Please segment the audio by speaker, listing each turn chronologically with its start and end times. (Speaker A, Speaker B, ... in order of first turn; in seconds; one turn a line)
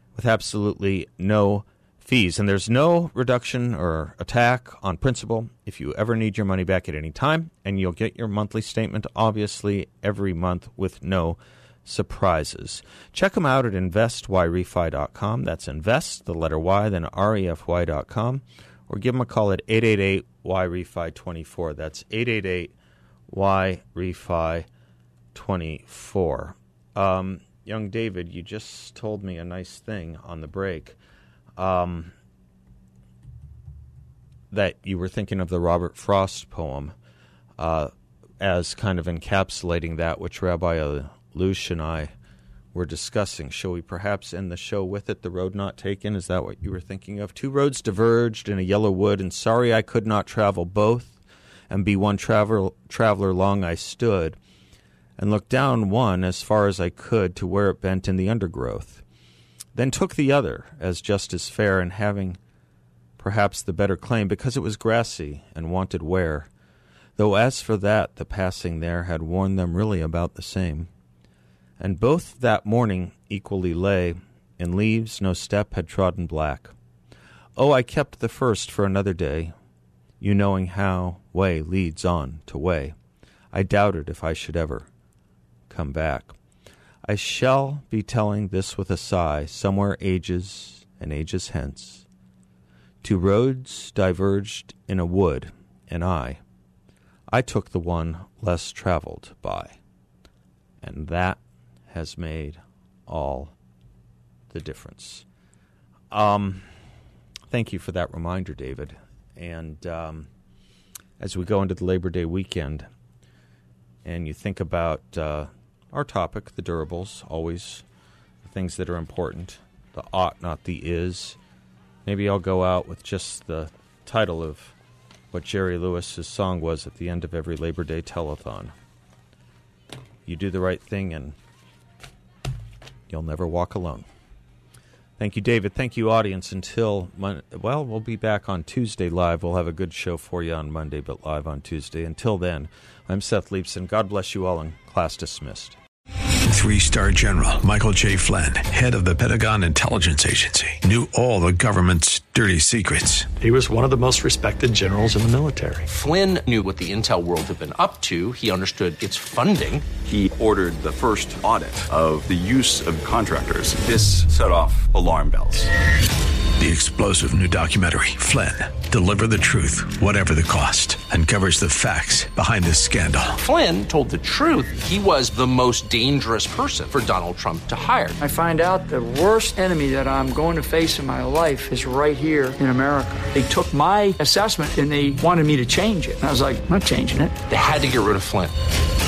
Speaker A: 0.2-22.7
Speaker A: 23.3-24.7
Speaker A: 25.3-31.0
Speaker A: 31.6-32.1
Speaker A: 34.5-37.0
Speaker A: 37.6-42.1
Speaker A: 42.7-51.2
Speaker A: 51.7-54.4
Speaker A: 55.2-59.0
Speaker A: 59.8-62.4
Speaker A: 63.2-66.5
Speaker A: 67.2-70.9
Speaker A: 71.8-76.7
Speaker A: 77.6-79.5
Speaker A: 80.2-83.0
Speaker A: 83.5-84.9
Speaker A: 85.7-86.3
Speaker A: 87.1-92.0
Speaker A: 93.0-96.4
Speaker A: 97.3-99.8
Speaker A: 100.8-103.5
Speaker A: 104.5-105.3
Speaker A: 106.1-106.7
Speaker A: 107.5-110.3
Speaker A: 111.2-112.9
Speaker A: 114.0-117.8
Speaker A: 118.4-121.4
Speaker A: 122.0-124.7
Speaker A: 125.3-128.7
Speaker A: 130.3-131.4
Speaker A: 133.1-134.1
Speaker A: 135.2-145.8
Speaker B: 146.5-153.3
Speaker C: 153.4-155.9
Speaker D: 155.9-159.9
Speaker E: 160.1-165.7
Speaker B: 166.6-173.4
Speaker D: 173.4-178.2
Speaker F: 178.2-187.4
Speaker D: 187.5-188.6